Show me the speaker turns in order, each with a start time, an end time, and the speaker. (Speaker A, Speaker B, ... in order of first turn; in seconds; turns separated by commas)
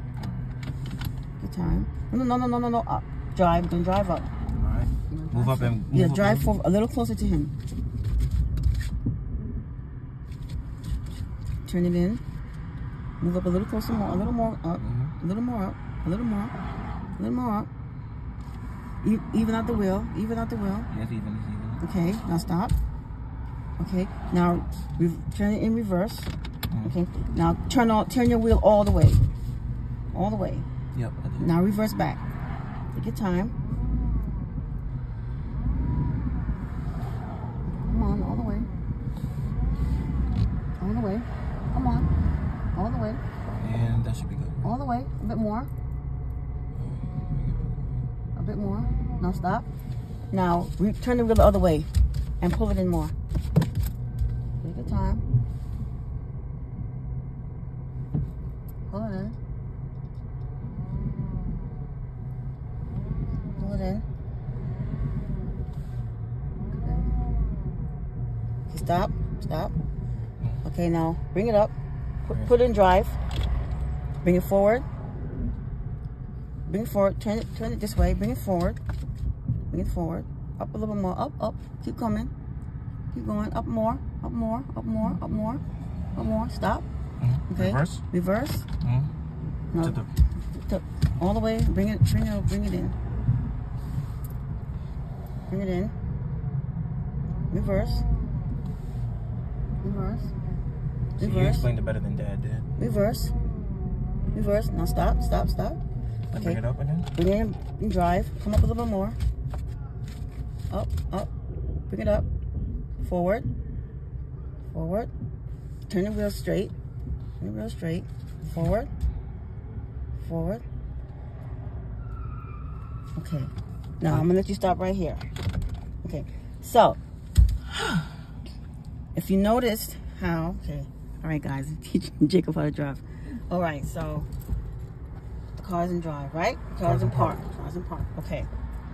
Speaker A: 0.2-0.5, Speaker B: 1.4-4.3, Speaker A: 4.6-6.5, Speaker B: 5.1-7.5, Speaker B: 11.7-12.2, Speaker B: 13.2-16.5, Speaker A: 14.8-15.1, Speaker B: 17.2-17.7, Speaker B: 19.0-20.9, Speaker A: 20.9-21.8, Speaker B: 21.8-22.7, Speaker B: 23.8-26.3, Speaker B: 26.8-29.2, Speaker B: 30.1-30.6, Speaker A: 30.9-31.5, Speaker B: 31.4-32.2, Speaker B: 32.9-33.5, Speaker B: 37.7-38.7, Speaker B: 40.8-42.1, Speaker B: 42.7-43.2, Speaker A: 43.5-44.7, Speaker B: 44.6-45.7, Speaker A: 46.7-48.1, Speaker B: 48.3-49.7, Speaker B: 50.3-51.9, Speaker B: 52.4-53.1, Speaker B: 54.6-55.2, Speaker B: 58.9-59.4, Speaker B: 63.6-64.0, Speaker B: 66.7-67.1, Speaker B: 68.7-69.7, Speaker B: 70.6-71.7, Speaker B: 72.2-73.2, Speaker B: 74.2-74.8, Speaker B: 76.7-78.8, Speaker B: 79.7-82.3, Speaker B: 83.1-85.6, Speaker B: 86.2-86.8, Speaker A: 87.2-88.0, Speaker B: 87.5-88.7, Speaker A: 88.8-89.1, Speaker B: 89.7-90.0, Speaker A: 89.8-90.1, Speaker B: 90.5-93.0, Speaker B: 95.5-95.9, Speaker B: 97.5-98.0, Speaker B: 99.8-100.3, Speaker B: 101.2-101.7, Speaker A: 101.2-102.7, Speaker B: 102.8-103.3, Speaker B: 104.3-105.8, Speaker A: 106.3-107.1, Speaker B: 106.3-106.6, Speaker B: 107.1-109.2, Speaker B: 110.7-111.3, Speaker B: 111.9-112.3, Speaker B: 113.0-113.5, Speaker B: 114.7-115.1, Speaker B: 115.9-116.7, Speaker B: 117.4-118.9, Speaker B: 120.2-120.6, Speaker B: 123.1-125.3, Speaker B: 126.0-127.0, Speaker B: 129.1-134.3, Speaker B: 135.6-138.5, Speaker A: 136.8-137.4